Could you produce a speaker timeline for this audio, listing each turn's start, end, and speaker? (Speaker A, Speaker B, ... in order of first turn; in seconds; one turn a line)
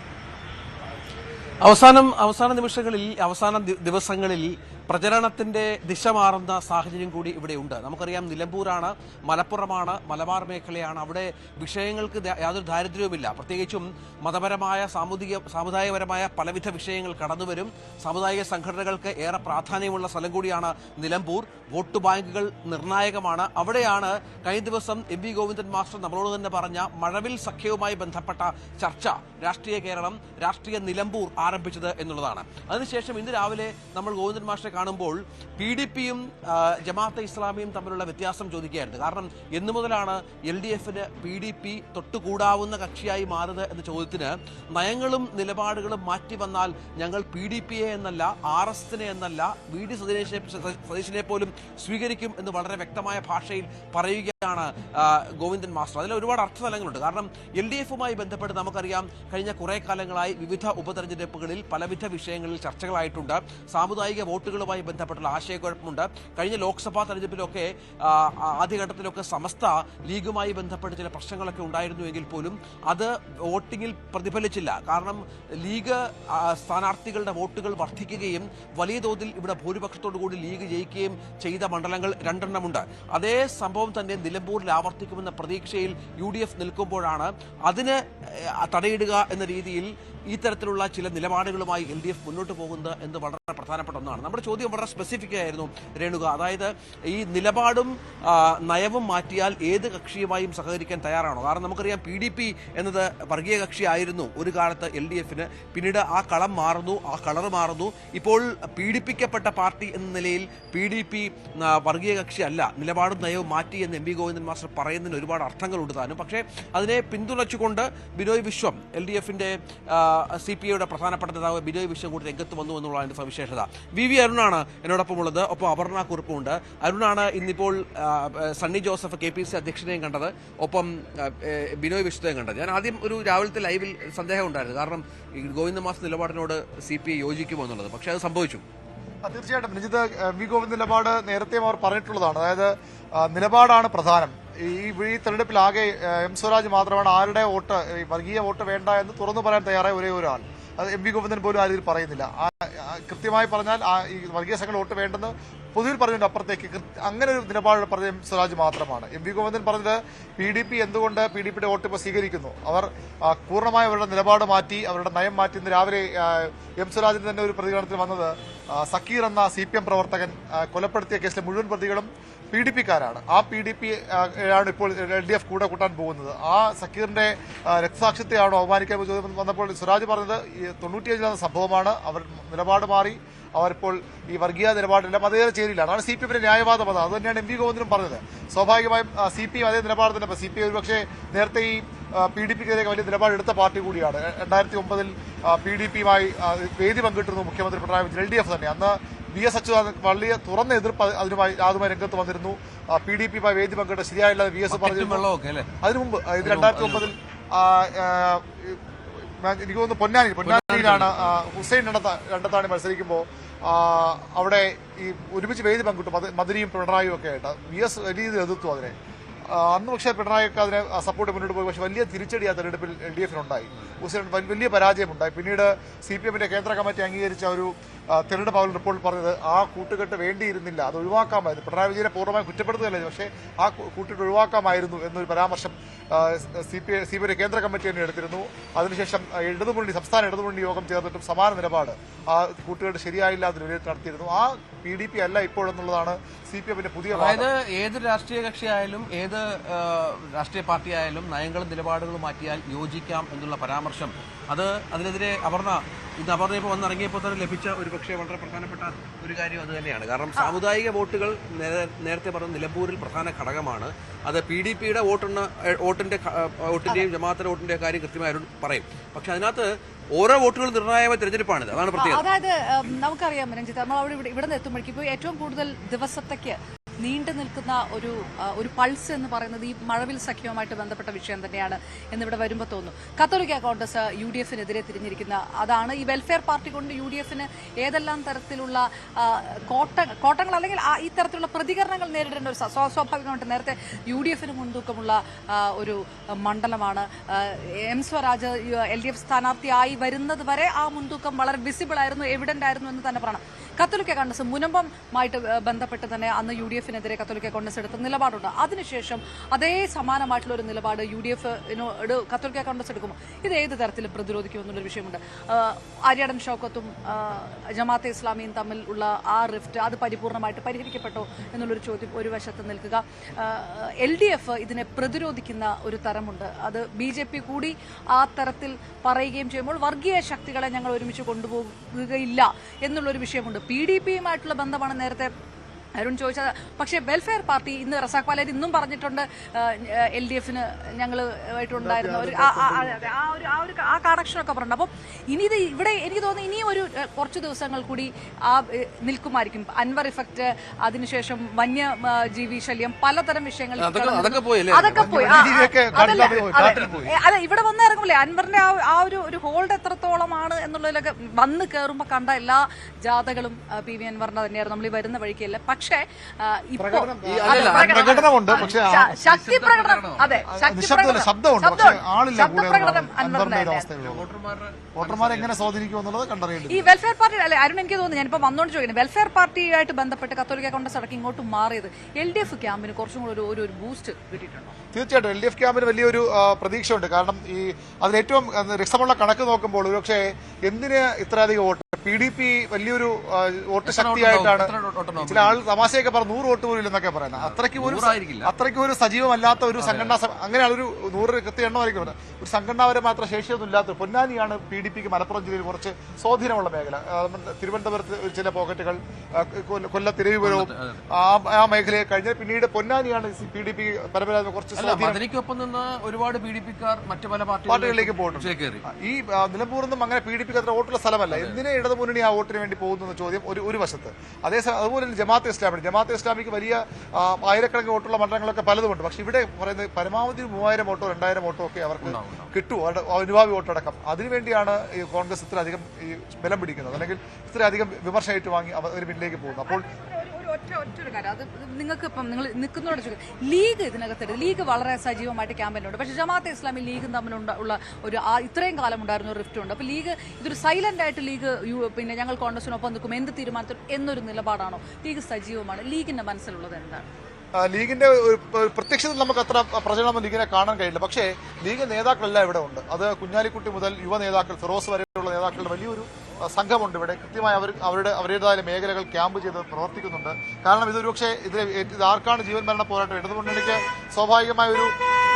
Speaker A: 1.6-138.6
Speaker B: 139.2-205.2
Speaker A: 204.7-205.7
Speaker B: 205.8-208.8
Speaker A: 206.4-207.1
Speaker B: 209.4-218.9
Speaker A: 210.4-211.4
Speaker B: 219.5-247.5
Speaker A: 247.1-272.2
Speaker C: 271.9-335.3
Speaker C: 336.0-373.9
Speaker B: 341.8-343.1
Speaker A: 353.8-357.1
Speaker B: 355.0-357.1
Speaker B: 366.8-369.3
Speaker A: 367.2-370.5
Speaker B: 370.5-374.3
Speaker A: 374.0-375.9
Speaker B: 375.0-376.9
Speaker C: 376.7-384.8
Speaker B: 384.9-415.2
Speaker A: 393.9-395.6
Speaker A: 397.4-398.5
Speaker A: 399.8-400.2
Speaker A: 410.4-411.0
Speaker A: 414.8-418.9
Speaker B: 417.7-439.8
Speaker A: 421.3-421.6
Speaker A: 432.0-432.5
Speaker C: 439.6-457.1
Speaker B: 457.6-474.9